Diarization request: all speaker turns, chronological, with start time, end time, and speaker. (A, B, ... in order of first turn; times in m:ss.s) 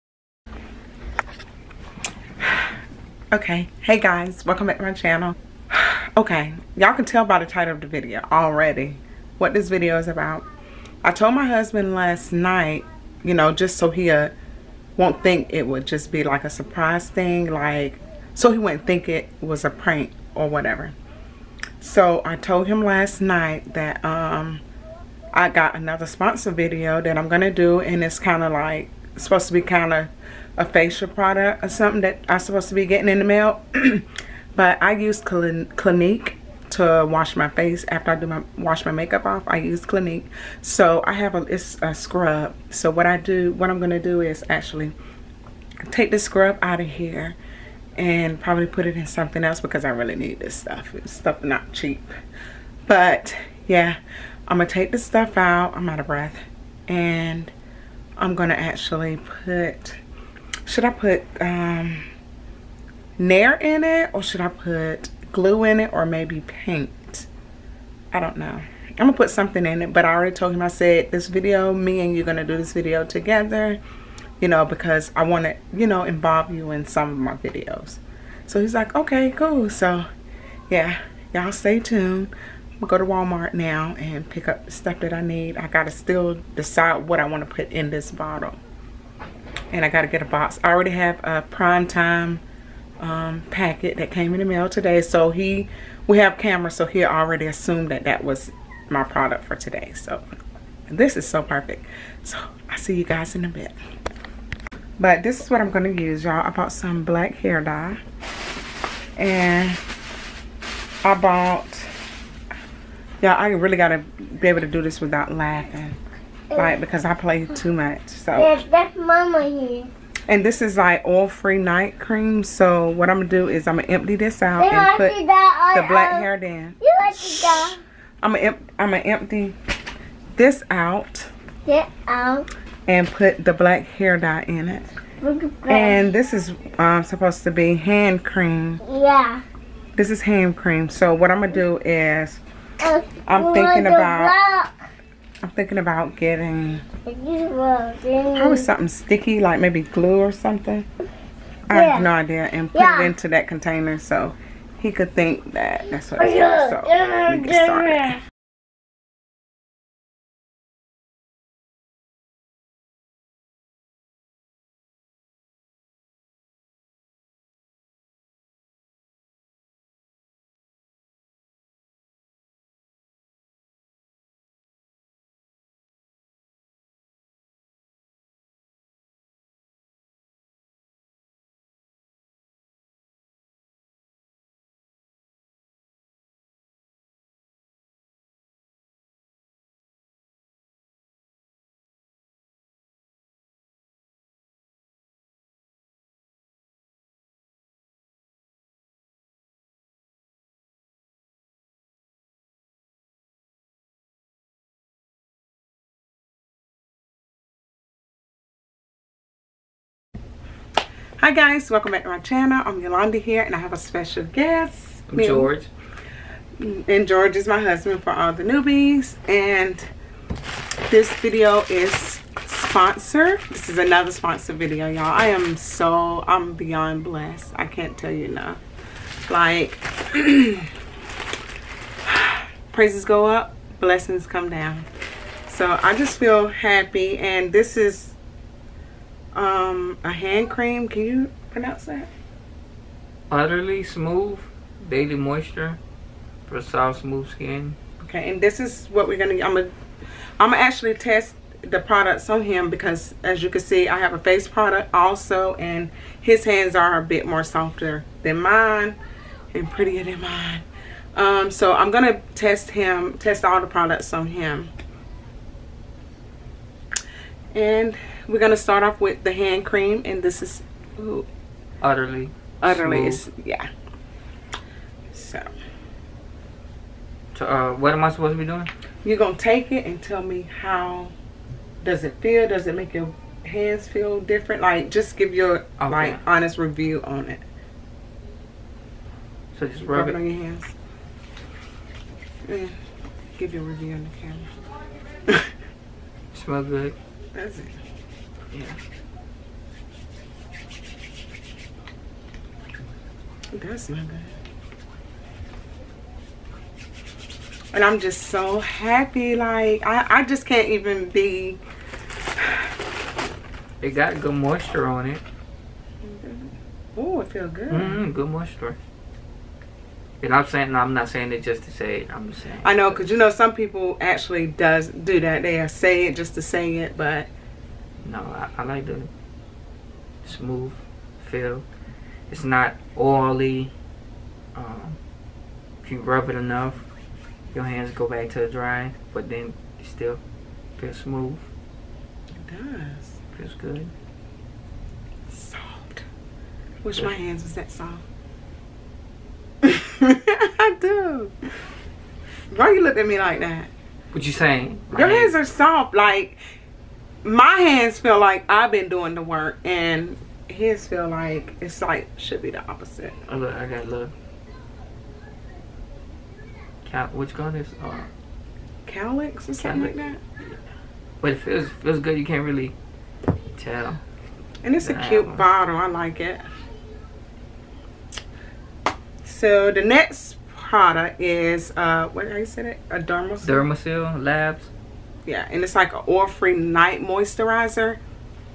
0:03.3-0:10.4 A
0:11.0-0:14.3 A
0:15.0-0:20.9 A
0:21.8-0:24.6 A
0:25.3-0:44.9 A
0:45.8-0:47.4 A
0:48.0-0:52.1 A
0:52.8-0:57.5 A
0:58.2-1:00.0 A
1:00.6-1:02.0 A
1:03.2-1:07.3 A
1:08.1-1:13.8 A
1:14.4-1:20.0 A
1:20.7-1:28.6 A
1:29.7-1:32.4 A
1:33.0-1:40.2 A
1:40.9-1:43.8 A
1:45.0-1:48.0 A
1:49.2-1:49.8 A
1:51.0-1:51.9 A
1:53.2-1:56.0 A
1:56.6-1:58.6 A
1:58.3-1:59.9 B
2:00.3-2:05.1 A
2:04.6-2:06.3 B
2:05.7-2:09.6 A
2:06.8-2:07.8 B
2:10.3-2:11.3 A
2:11.6-2:12.5 B
2:12.9-2:14.9 A
2:15.2-2:16.0 B
2:15.7-2:18.8 A
2:18.8-2:19.4 B
2:20.0-2:22.4 A
2:22.8-2:24.7 B
2:23.2-2:24.3 A
2:25.4-2:26.8 A
2:27.0-2:28.6 B
2:28.3-2:30.9 A
2:31.7-2:38.2 A
2:31.7-2:32.1 B
2:32.7-2:33.1 B
2:36.2-2:38.2 B
3:31.2-3:35.5 A
3:35.1-3:35.7 C
3:36.6-3:39.9 A
3:40.9-3:48.6 A
3:49.3-3:50.7 A
3:52.0-3:54.9 A
3:55.5-3:58.2 A
3:59.3-4:02.1 A
4:03.3-4:05.8 C
4:06.5-4:07.8 C
4:08.0-4:09.7 A
4:10.4-4:19.0 A
4:19.5-4:24.7 A
4:27.5-4:31.3 A
4:31.8-4:33.2 C
4:32.6-4:33.7 A
4:35.1-4:35.5 A
4:37.3-4:38.7 C
4:39.0-4:41.1 A
4:41.8-4:47.4 A
4:45.8-4:46.2 C
4:49.5-4:50.2 C
4:49.9-4:50.7 A
4:52.4-4:52.8 A
4:53.4-4:54.5 A
4:56.3-4:57.0 C
4:57.3-4:57.8 A
4:58.5-4:58.8 C
5:03.5-5:04.3 A
5:07.7-5:11.6 A
5:12.4-5:12.7 A
5:13.8-5:15.2 C
5:16.0-5:18.0 A
5:17.7-5:18.8 C
5:20.2-5:23.1 C
5:22.6-5:27.3 A
5:28.0-5:29.1 C
5:30.2-5:31.6 C
5:32.3-5:33.7 C
5:34.5-5:35.0 C
5:35.8-5:36.8 C
5:37.5-5:40.2 C
5:40.8-5:41.5 C
5:42.4-5:43.2 A
5:43.3-5:43.9 C
5:45.3-5:46.0 A
5:46.8-5:48.0 A
5:49.6-5:51.3 A
5:52.5-5:53.7 A
5:54.1-5:55.3 C
5:54.9-5:56.4 A
5:57.2-6:03.2 A
6:03.2-6:04.1 C
6:06.8-6:08.1 C
6:08.8-6:10.2 A
6:09.6-6:10.5 C
6:11.2-6:12.7 C
6:13.6-6:14.0 C
6:14.6-6:16.4 A
6:14.8-6:15.5 C
6:19.2-6:23.7 A
6:23.4-6:24.7 C
6:25.2-6:28.0 A